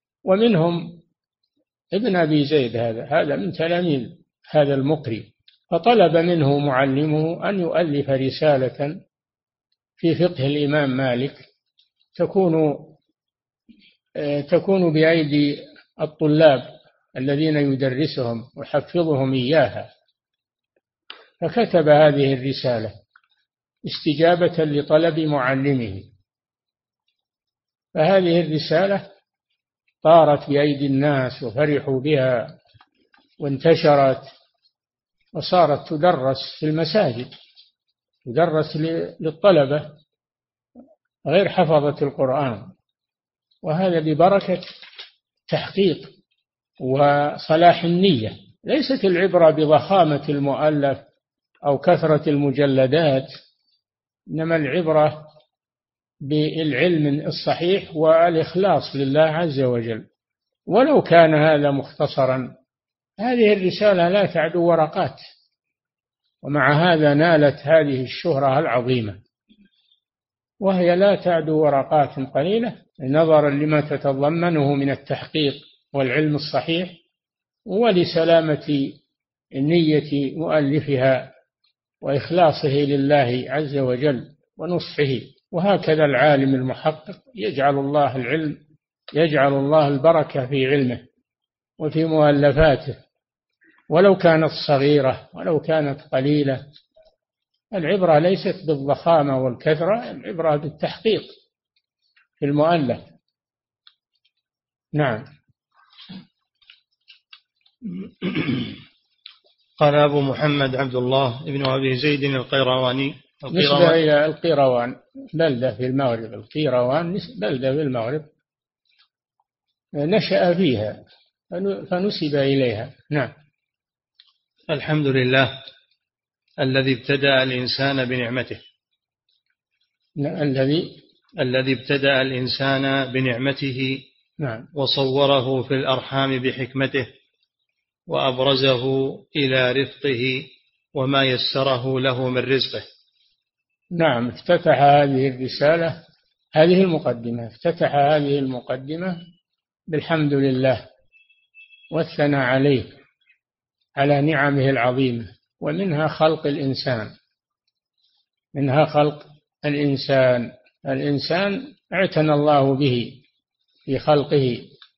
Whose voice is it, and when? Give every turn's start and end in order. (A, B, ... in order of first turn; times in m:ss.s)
0:00.2-0:01.0 A
0:01.9-0:08.9 A
0:10.0-0:11.4 A
0:12.2-0:13.0 A
0:14.2-0:19.9 A
0:21.4-0:22.9 A
0:23.8-0:26.1 A
0:27.9-0:29.0 A
0:30.0-0:32.5 A
0:33.4-0:34.3 A
0:35.4-0:37.3 A
0:38.2-0:39.9 A
0:41.3-0:42.7 A
0:43.6-0:44.7 A
0:45.5-0:46.1 A
0:46.8-0:51.0 A
0:51.6-0:53.3 A
0:54.3-0:55.3 A
0:56.2-1:00.0 A
1:00.7-1:02.5 A
1:03.2-1:05.2 A
1:06.4-1:09.2 A
1:10.6-1:17.0 A
1:17.7-1:19.0 A
1:19.5-1:21.3 A
1:22.0-1:28.6 A
1:29.1-1:31.0 A
1:31.8-1:33.0 A
1:33.9-1:36.6 A
1:37.7-1:41.3 A
1:42.4-1:43.0 A
1:44.9-1:45.2 A
1:48.0-1:48.8 B
1:49.8-1:54.0 B
1:53.5-1:58.2 A
2:00.0-2:01.0 A
2:01.5-2:03.3 A
2:04.7-2:05.5 B
2:06.6-2:08.6 B
2:10.2-2:10.9 A
2:11.4-2:14.0 B
2:14.4-2:14.6 A
2:14.7-2:17.1 B
2:18.1-2:22.8 B
2:23.9-2:26.0 A
2:26.6-2:29.2 A
2:29.9-2:30.8 A
2:31.9-2:32.9 A
2:34.0-2:37.1 A
2:38.5-2:43.2 A
2:43.9-2:44.7 A